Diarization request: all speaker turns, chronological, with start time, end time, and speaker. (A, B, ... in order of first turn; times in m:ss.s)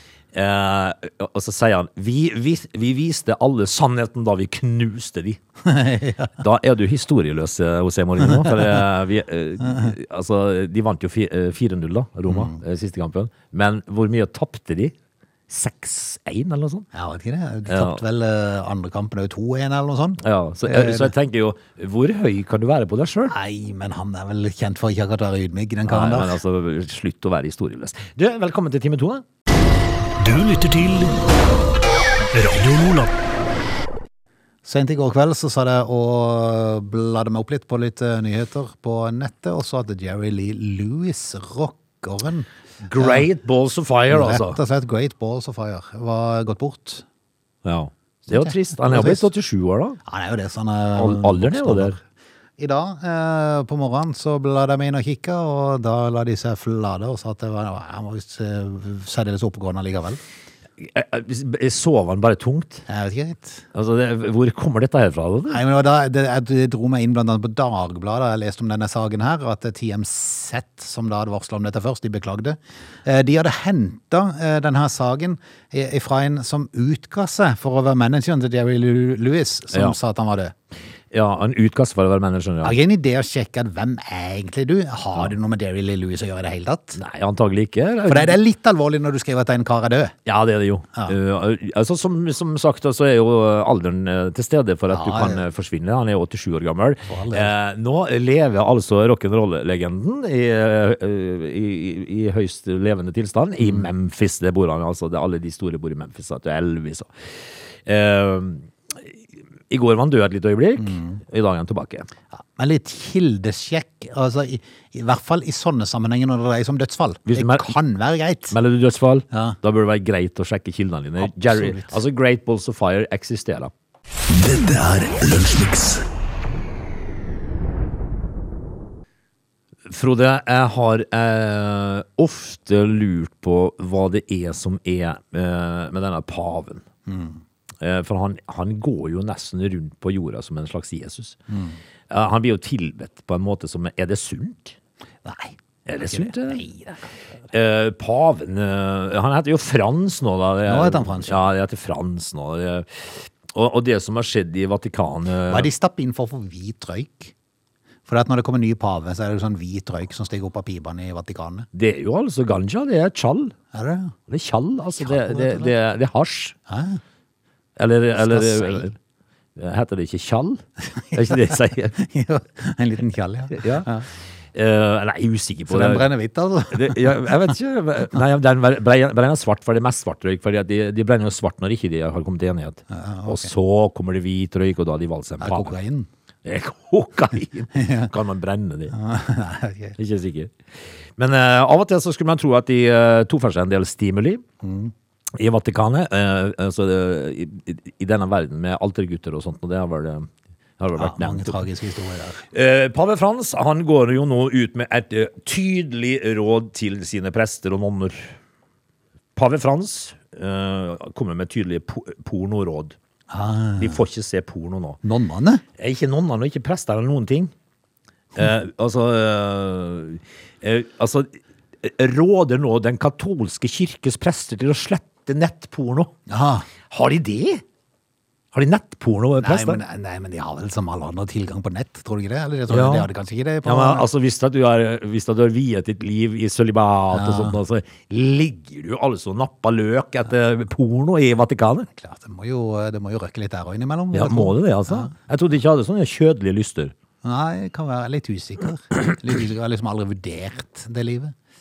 0:00.3-0:05.4 A
0:05.6-0:06.4 B
0:06.4-0:14.9 A
0:08.3-0:08.6 B
0:12.3-0:12.6 B
0:15.5-0:16.8 A
0:16.9-0:21.1 B
0:17.7-0:18.0 A
0:20.2-0:23.3 A
0:23.3-0:26.4 B
0:25.9-0:29.2 A
0:30.2-0:31.2 C
0:32.3-0:33.1 C
0:34.6-0:43.2 B
0:42.8-0:44.6 A
0:44.1-0:47.0 B
0:47.6-0:50.0 A
0:48.3-0:49.3 B
0:50.0-0:52.0 B
0:51.0-0:52.0 A
0:52.6-1:00.2 B
1:00.8-1:02.8 A
1:02.9-1:03.6 B
1:03.7-1:05.6 A
1:05.5-1:20.5 B
1:21.1-1:22.8 A
1:22.6-1:27.0 B
1:27.0-1:28.4 A
1:28.1-1:30.1 B
1:30.2-1:47.1 A
1:34.9-1:35.4 B
1:37.1-1:37.5 B
1:47.9-1:49.1 A
1:49.7-1:52.1 A
1:50.8-1:51.2 B
1:52.3-1:58.6 B
1:57.3-1:57.8 A
1:58.5-2:03.7 A
1:59.3-1:59.6 B
2:01.2-2:02.0 B
2:04.3-2:06.0 C
2:09.9-2:16.8 A
2:17.1-2:17.4 B
2:17.8-2:21.4 A
2:21.5-2:21.8 B
2:22.1-2:24.8 A
2:25.2-2:27.0 B
2:25.9-2:26.6 A
2:27.5-2:35.7 A
2:30.6-2:31.5 B
2:35.5-2:37.3 B
2:38.1-2:41.7 B
2:41.7-2:43.5 A
2:43.7-2:44.1 B
2:44.3-2:46.5 A
2:45.0-2:45.7 B
2:46.7-2:47.0 B
2:47.8-2:49.0 A
2:48.2-2:48.9 B
2:49.6-2:51.9 A
2:51.2-2:54.1 B
2:53.5-2:53.9 A
2:54.5-2:56.1 A
2:55.7-2:57.3 B
2:56.7-3:05.7 A
3:02.9-3:03.5 B
3:05.4-3:06.1 B
3:06.4-3:09.0 A
3:07.7-3:08.1 B
3:08.9-3:10.0 B
3:10.0-3:10.5 A
3:11.2-3:14.4 A
3:14.6-3:14.9 B
3:15.4-3:21.6 A
3:21.0-3:22.4 B
3:22.5-3:28.3 A
3:29.4-3:33.0 A
3:33.3-3:34.0 B
3:33.8-3:35.0 A
3:35.0-3:35.6 B
3:35.8-3:37.5 A
3:38.4-3:46.1 A
3:46.3-3:46.7 B
3:46.9-3:47.6 A
3:48.5-3:49.8 A
3:49.4-3:54.1 B
3:52.7-3:53.1 A
3:53.6-4:01.9 A
3:57.1-3:57.6 B
4:02.0-4:05.1 B
4:04.1-4:06.9 A
4:07.2-4:11.4 B